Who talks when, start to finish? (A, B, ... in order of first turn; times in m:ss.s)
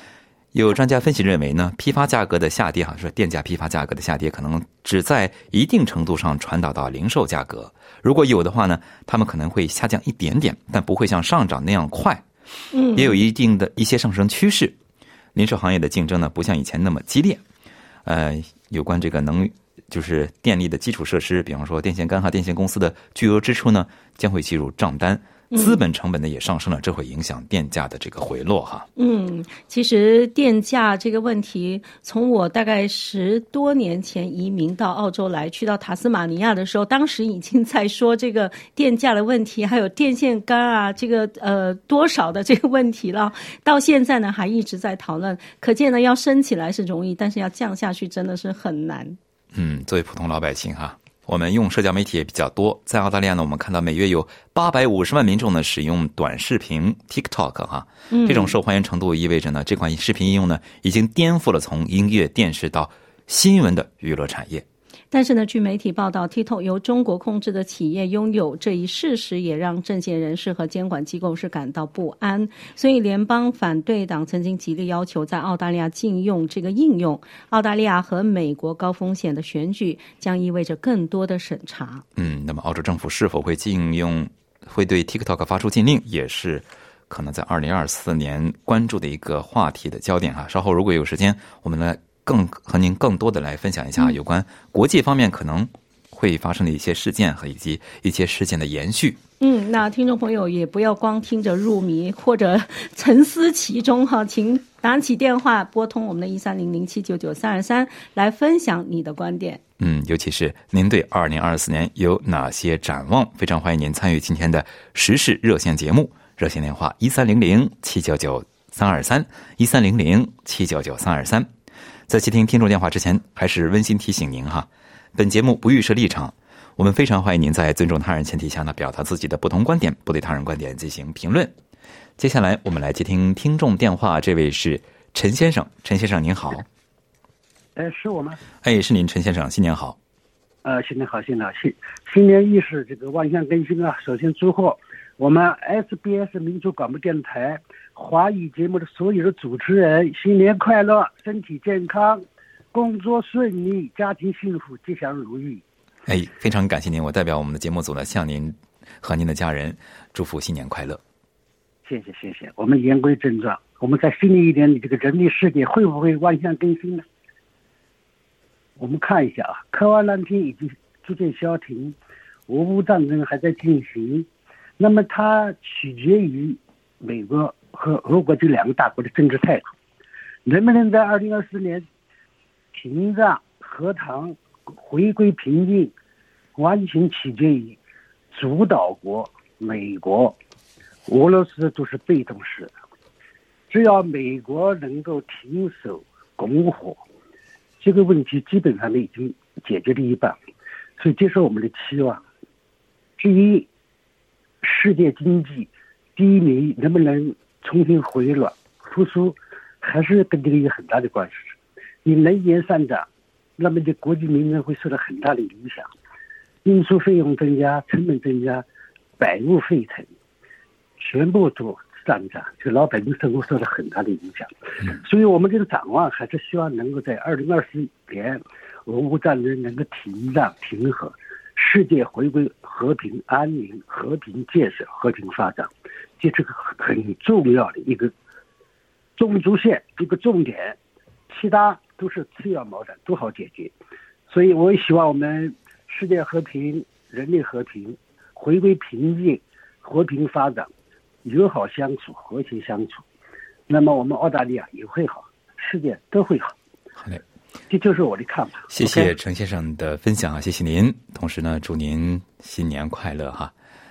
0:00.5-0:12.2 A
0:12.7-0:13.2 B
0:12.9-0:14.8 A
0:15.3-0:17.4 A
0:18.0-0:28.9 A
0:25.5-0:25.8 B
0:29.0-0:49.2 B
0:49.5-1:04.6 A
0:58.1-0:58.5 B
1:05.1-1:22.0 B
1:22.2-1:39.2 A
1:39.4-1:49.6 B
1:49.8-2:01.5 A
2:02.1-2:11.5 A
2:12.2-2:16.6 A
2:17.8-2:18.4 C
2:18.6-2:20.0 A
2:20.6-2:32.2 C
2:32.7-2:35.6 C
2:36.0-2:41.0 A
2:41.8-2:47.0 C
2:48.8-2:52.0 C
2:52.5-2:54.3 C
2:54.8-2:59.7 C
3:00.4-3:01.8 C
3:02.7-3:05.9 C
3:06.6-3:07.8 C
3:08.3-3:10.4 C
3:11.1-3:12.7 C
3:13.7-3:17.0 C
3:17.8-3:20.4 C
3:21.0-3:22.2 C
3:23.2-3:23.7 C
3:24.6-3:33.1 C
3:33.6-3:35.9 C
3:36.6-3:38.6 C
3:39.2-3:40.1 C
3:41.0-3:58.1 C
3:59.2-4:00.8 C
4:01.3-4:03.7 C
4:04.3-4:10.7 C
4:11.2-4:13.0 C
4:13.7-4:16.5 C
4:17.7-4:19.1 C
4:18.7-4:23.5 A